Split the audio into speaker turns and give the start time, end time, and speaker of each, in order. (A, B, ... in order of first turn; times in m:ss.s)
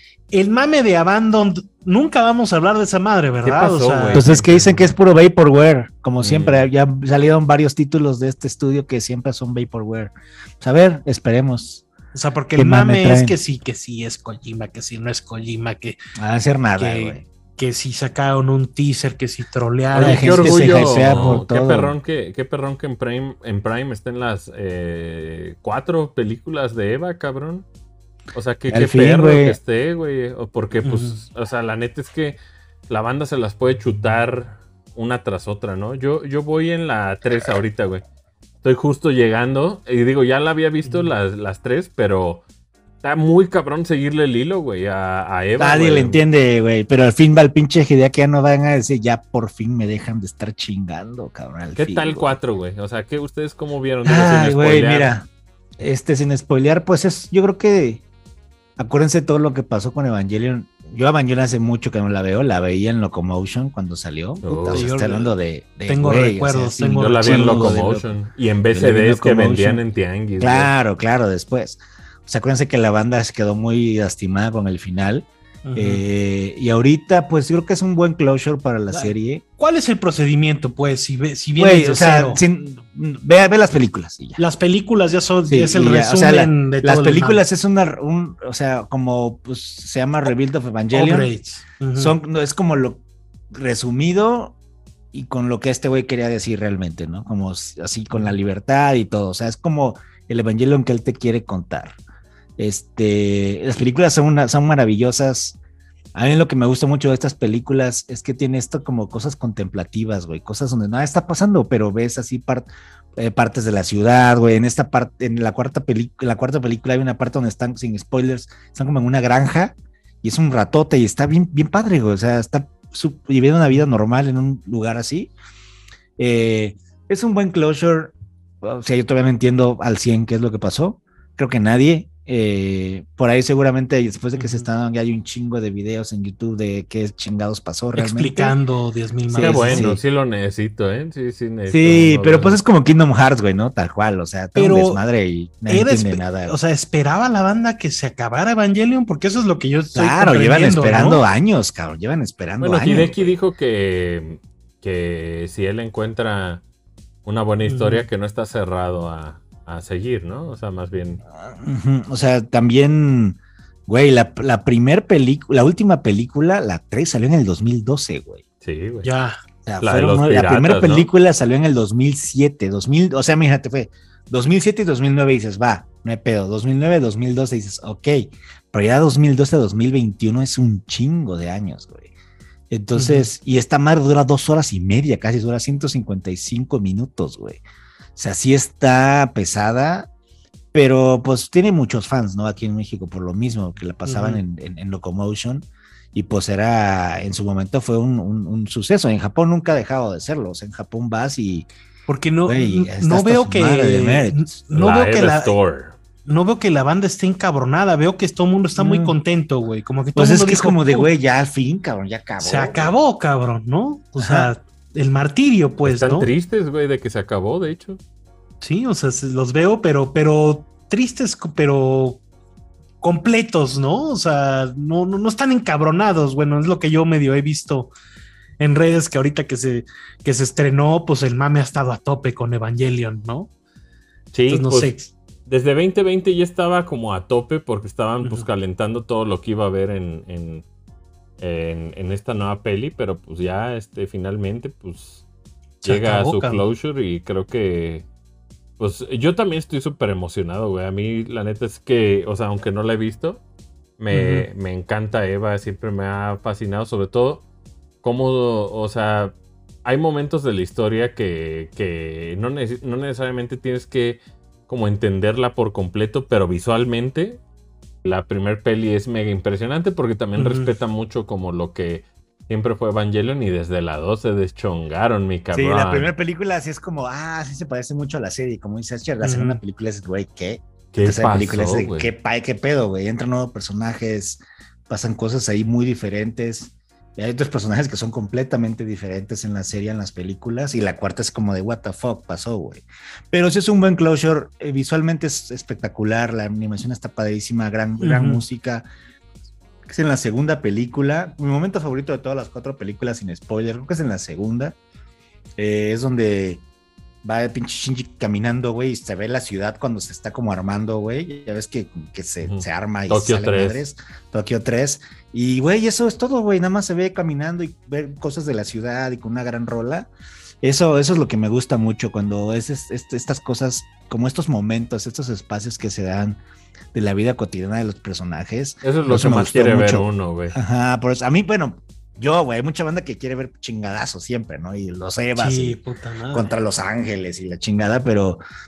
0:00.3-0:04.3 A
0:03.4-0:04.9 B
0:04.1-0:11.8 C
0:06.2-0:06.7 B
0:12.1-0:16.0 A
0:12.6-0:13.4 C
0:16.2-0:17.2 C
0:16.8-0:21.4 A
0:19.9-0:27.7 B
0:20.0-0:22.0 C
0:28.3-0:32.4 B
0:28.7-0:29.6 C
0:30.8-0:31.2 A
0:32.9-0:38.0 B
0:38.6-0:42.4 B
0:40.8-0:41.1 A
0:43.0-0:46.2 B
0:45.6-0:52.4 C
0:51.8-0:55.1 B
0:54.0-0:55.3 C
0:55.8-0:58.0 C
0:58.8-1:08.1 C
1:04.4-1:04.9 B
1:04.6-1:05.3 A
1:05.9-1:07.8 A
1:07.0-1:10.7 B
1:08.7-1:09.8 C
1:10.4-1:19.4 C
1:15.6-1:16.0 A
1:18.9-1:22.4 A
1:21.6-1:24.4 C
1:24.4-1:27.4 A
1:25.5-1:31.3 C
1:30.9-1:32.2 A
1:32.0-1:33.0 C
1:33.5-1:34.6 C
1:35.1-1:42.0 C
1:42.6-1:45.6 C
1:46.2-2:05.3 C
2:06.2-2:18.6 C
2:14.4-2:14.7 A
2:18.0-2:19.9 A
2:19.3-2:20.0 C
2:19.4-2:22.6 B
2:21.7-2:26.6 C
2:24.6-2:25.0 A
2:25.7-2:31.2 A
2:29.9-2:33.2 C
2:32.6-2:36.6 B
2:37.2-2:41.2 B
2:37.7-2:38.1 A
2:41.3-2:48.4 C
2:48.6-2:49.1 B
2:49.0-2:49.4 A
2:49.6-3:02.1 C
2:49.8-2:51.1 B
3:02.7-3:07.6 C
3:03.0-3:03.3 A
3:08.2-3:10.1 C
3:10.7-3:21.7 C
3:14.0-3:14.4 A
3:22.1-3:25.6 A
3:22.5-3:24.6 C
3:24.7-3:26.0 B
3:26.3-3:31.1 A
3:28.8-3:29.2 C
3:30.2-3:32.9 C
3:32.4-3:36.3 A
3:34.2-3:34.5 C
3:35.8-3:38.0 B
3:38.6-3:42.2 A
3:43.0-3:47.9 A
3:48.6-3:53.5 A
3:54.3-3:54.9 B
3:54.5-3:55.1 A
3:55.5-4:00.6 B
4:01.4-4:05.2 B
4:05.8-4:06.6 A
4:05.8-4:08.1 B
4:08.8-4:13.4 B
4:14.0-4:17.4 B
4:14.1-4:14.5 A
4:18.0-4:27.4 B
4:28.0-4:36.1 B
4:30.4-4:30.7 A
4:35.5-4:58.9 C
4:39.2-4:39.6 A
4:40.9-4:42.1 B
4:58.0-4:58.4 A
4:59.9-5:04.8 C
5:05.6-5:06.6 C
5:07.2-5:20.1 C
5:12.4-5:13.8 B
5:20.6-5:26.4 C
5:26.9-5:35.8 C
5:28.8-5:30.6 B
5:35.4-5:36.5 A
5:36.3-5:38.4 C